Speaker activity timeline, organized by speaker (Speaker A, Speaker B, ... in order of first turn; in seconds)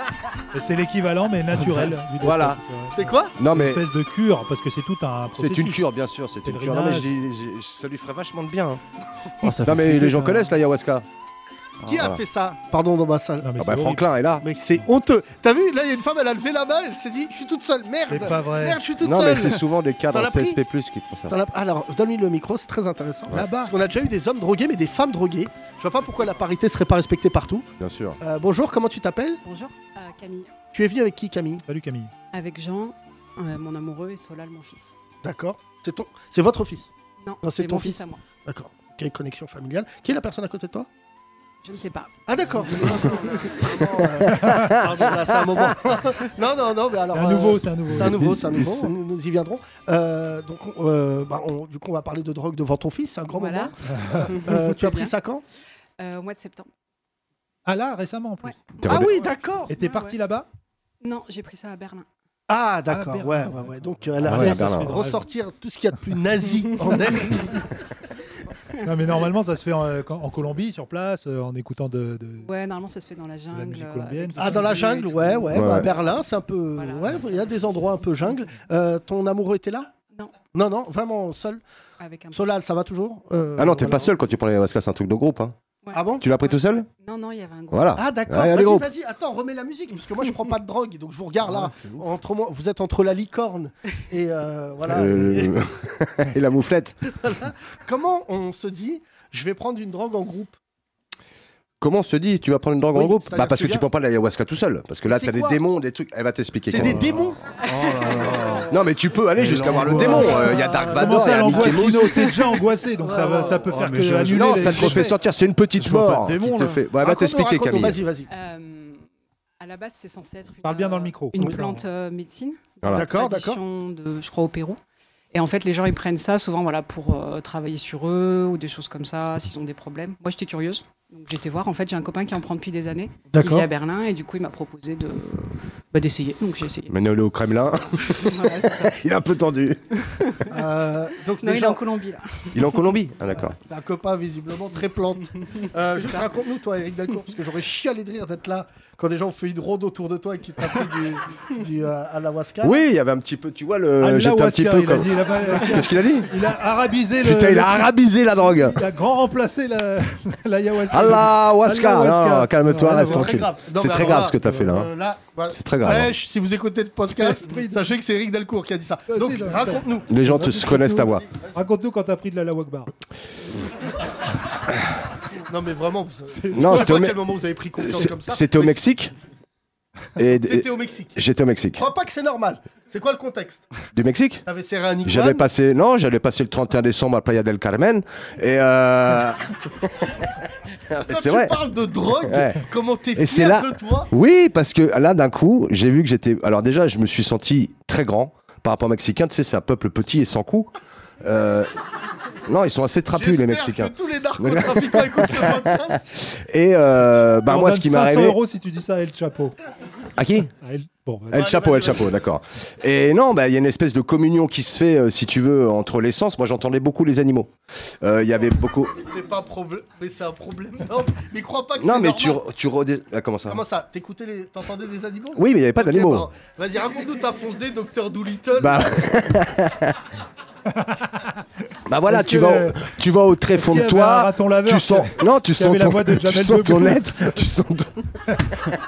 Speaker A: 0.5-5.8, 6.4-7.1, 13.4-14.0, 18.1-18.8, 23.3-23.7, 31.7-32.1, 44.3-44.8, 47.1-48.6, 53.9-54.3, 57.6-59.2, 59.7-60.5, 62.9-65.2, 68.8-72.5, 73.5-75.5, 110.0-115.1, 120.6-121.8, 154.0-163.4, 167.1-167.8, 169.1-171.0, 171.5-172.9, 207.4-209.5, 210.6-211.5, 230.7-231.3, 232.1-232.9, 233.5-237.3
Speaker B: 2.2-2.6, 3.4-3.8, 5.3-8.8, 9.6-11.1, 11.9-12.2, 13.6-14.4, 19.0-21.3, 27.8-28.2, 44.5-44.8, 48.0-48.9, 58.8-59.1, 64.2-65.0, 75.5-75.9, 83.6-85.5, 86.2-86.9, 87.7-88.9, 94.8-97.0, 101.8-107.0, 108.7-112.3, 114.3-118.0, 122.8-123.1, 136.9-139.9, 142.5-143.6, 152.6-156.3, 157.2-158.8, 160.9-164.9, 165.5-166.1, 170.1-171.2, 176.5-177.2, 177.7-179.1, 180.2-181.8, 183.9-184.4, 185.0-190.1, 190.9-191.6, 192.2-200.7, 201.2-201.7, 202.4-208.4, 210.2-210.5, 211.3-219.0, 221.8-223.6, 225.3-226.3, 228.6-229.9, 231.9-238.0
Speaker C: 2.9-3.3, 11.8-13.5, 14.4-20.6, 21.3-27.7, 28.2-29.4, 30.7-31.6, 35.2-36.9, 37.4-40.9, 42.3-55.4, 58.8-59.7, 62.5-67.6, 74.4-79.9, 80.5-81.6, 82.3-84.1, 85.9-86.2, 87.9-95.6, 97.1-100.5, 102.9-103.8, 105.1-105.6, 106.7-107.4, 109.9-112.0, 113.0-113.7, 117.0-118.3, 122.9-123.6, 133.3-133.7, 140.5-141.8, 143.6-152.8, 162.9-170.1, 175.4-178.8, 180.4-181.2, 181.8-183.7, 184.4-185.5, 191.1-194.1, 203.1-206.0, 211.3-212.1, 219.0-222.4, 223.5-228.9
Speaker D: 9.4-10.5, 91.5-92.0, 106.7-108.7, 109.4-110.4, 113.7-115.0, 115.8-116.8
Speaker E: 29.4-30.5, 32.3-35.0, 37.2-38.2, 41.6-44.0, 53.3-55.1, 56.0-56.7, 58.4-59.2, 59.7-60.2, 61.0-62.0, 72.4-75.5, 76.8-77.5, 82.0-82.4, 85.8-88.0, 118.3-119.0, 119.6-124.8, 125.3-136.9, 138.1-138.9, 140.0-140.6, 141.4-142.9, 145.4-146.3